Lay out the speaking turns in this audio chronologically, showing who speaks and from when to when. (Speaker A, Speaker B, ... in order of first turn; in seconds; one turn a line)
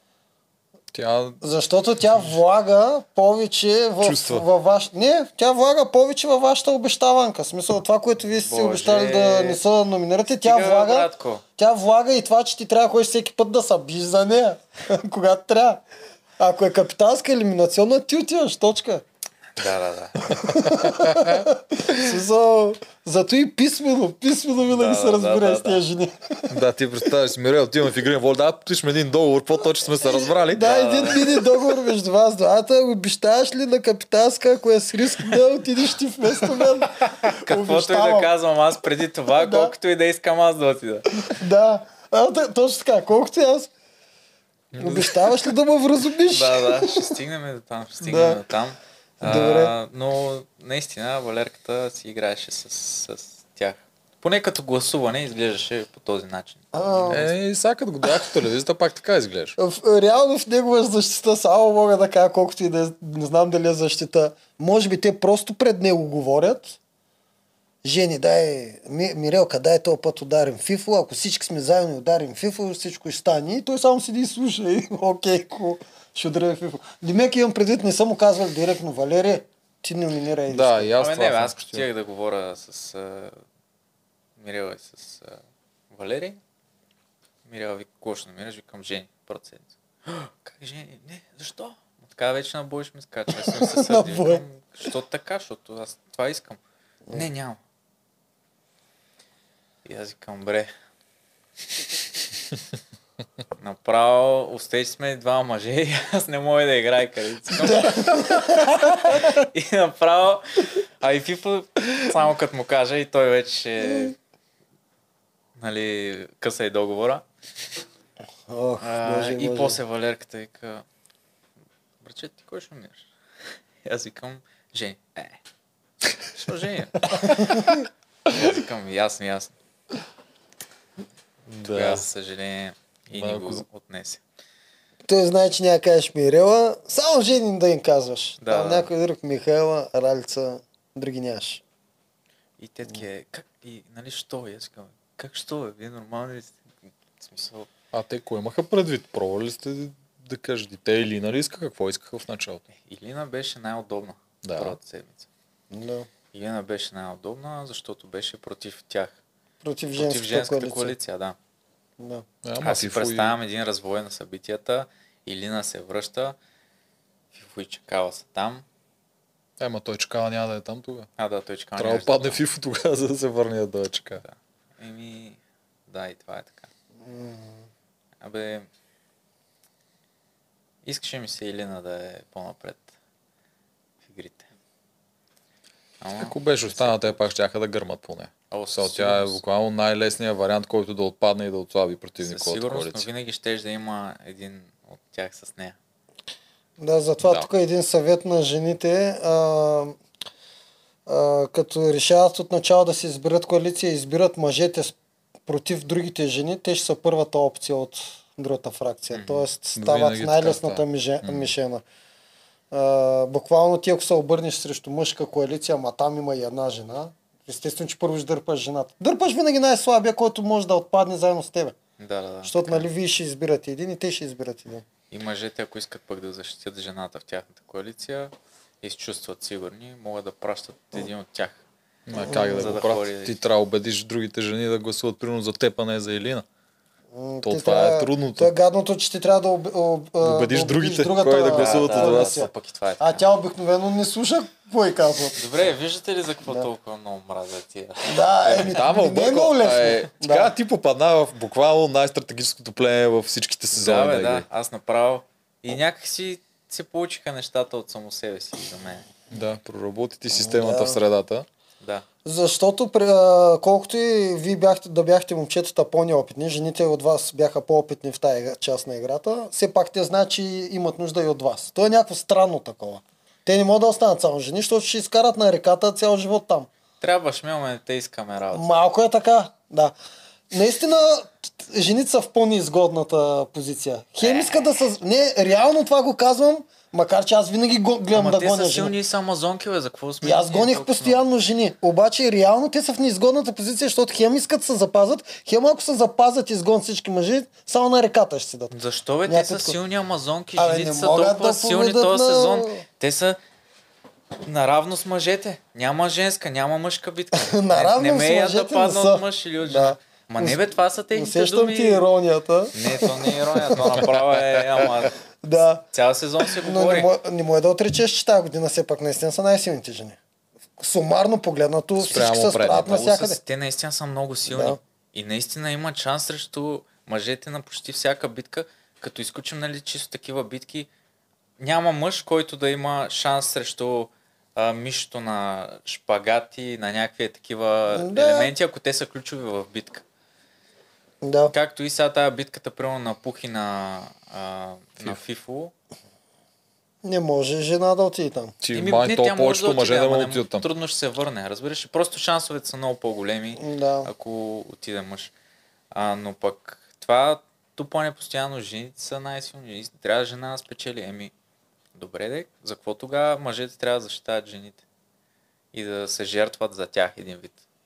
Speaker A: 0.9-1.4
Speaker B: 1.4-15.8
Speaker A: 4.0-4.4
Speaker C: 8.3-9.6
Speaker C: 10.4-11.4
Speaker B: 16.4-19.0
Speaker C: 19.6-20.4
Speaker A: 20.3-21.5
Speaker B: 20.4-26.5
Speaker C: 24.7-25.8
Speaker A: 26.5-31.0
Speaker B: 30.5-38.3
Speaker C: 30.5-31.4
Speaker C: 37.3-41.3
Speaker B: 39.3-39.7
Speaker B: 41.3-43.7
Speaker A: 44.7-45.4
Speaker B: 44.8-47.1
Speaker C: 46.3-57.3
Speaker B: 48.0-48.4
Speaker B: 49.2-49.7
Speaker B: 56.7-57.2
Speaker A: 57.1-59.5
Speaker B: 59.6-66.8
Speaker B: 67.8-80.9
Speaker A: 80.5-81.8
Speaker C: 81.0-83.4
Speaker C: 84.4-85.4
Speaker C: 85.9-86.4
Speaker C: 87.5-96.6
Speaker B: 93.4-94.4
Speaker C: 97.1-97.6
Speaker C: 99.8-100.7
Speaker C: 103.6-114.1
Speaker B: 107.6-109.2
Speaker B: 113.8-114.1
Speaker C: 115.5-117.2
Speaker B: 118.5-119.8
Speaker C: 118.8-120.8
Speaker C: 122.0-123.1
Speaker C: 123.8-125.4
Speaker C: 126.3-127.7
Speaker B: 127.2-127.7
Speaker C: 128.3-129.5
Speaker A: 131.5-132.0
Speaker C: 131.6-134.2
Speaker A: 133.1-133.6
Speaker B: 135.0-141.6
Speaker C: 138.4-138.9
Speaker C: 142.6-146.7
Speaker C: 147.2-147.7
Speaker A: 147.9-152.6
Speaker C: 152.7-155.3
Speaker A: 154.4-154.8
Speaker B: 155.7-156.1
Speaker C: 156.3-159.2
Speaker B: 159.6-160.9
Speaker C: 159.9-161.4
Speaker B: 162.0-162.2
Speaker A: 162.4-163.3
Speaker C: 162.6-166.4
Speaker C: 167.3-168.6
Speaker A: 169.6-171.1
Speaker C: 171.2-172.4
Speaker A: 171.8-174.2
Speaker C: 174.2-176.7
Speaker B: 177.0-177.6
Speaker C: 178.2-178.7
Speaker C: 180.8-182.8
Speaker C: 184.0-184.5
Speaker C: 186.0-187.2
Speaker A: 186.2-193.1
Speaker C: 188.5-189.4
Speaker C: 192.2-195.8
Speaker B: 196.8-200.0
Speaker A: 197.2-197.5
Speaker B: 201.1-211.8
Speaker C: 209.1-209.5
Speaker A: 209.8-211.5
Speaker B: 212.7-221.8
Speaker C: 222.0-222.9
Speaker B: 222.4-224.8
Speaker C: 225.1-231.6
Speaker A: 232.1-236.4
Speaker B: 232.2-232.8
Speaker C: 232.3-233.4
Speaker B: 237.1-245.4
Speaker A: 237.4-238.5
Speaker A: 240.2-242.5
Speaker C: 241.5-243.3
Speaker C: 245.3-248.8
Speaker B: 248.0-250.5
Speaker A: 248.6-254.4
Speaker C: 253.7-259.1
Speaker A: 259.3-261.4
Speaker B: 260.3-261.0
Speaker B: 262.2-276.7
Speaker C: 277.0-278.7
Speaker B: 278.5-279.9
Speaker B: 280.5-288.9
Speaker C: 284.2-284.7
Speaker C: 288.1-291.2
Speaker B: 290.2-298.7
Speaker C: 298.7-303.4
Speaker B: 299.3-299.8
Speaker B: 300.6-302.8
Speaker C: 304.4-312.0
Speaker B: 307.3-310.6
Speaker B: 311.1-314.0
Speaker C: 312.7-315.1
Speaker B: 315.4-315.8
Speaker C: 315.9-317.1
Speaker B: 316.6-320.2
Speaker B: 320.8-323.4
Speaker A: 322.0-323.3
Speaker C: 323.1-330.9
Speaker B: 324.5-324.8
Speaker C: 331.6-340.0
Speaker B: 337.9-338.5
Speaker B: 341.2-341.5
Speaker C: 341.5-345.7
Speaker B: 347.0-348.5
Speaker A: 348.6-350.6
Speaker C: 348.7-355.3
Speaker B: 353.6-354.1
Speaker C: 355.9-361.3
Speaker C: 361.9-364.8
Speaker C: 365.7-367.6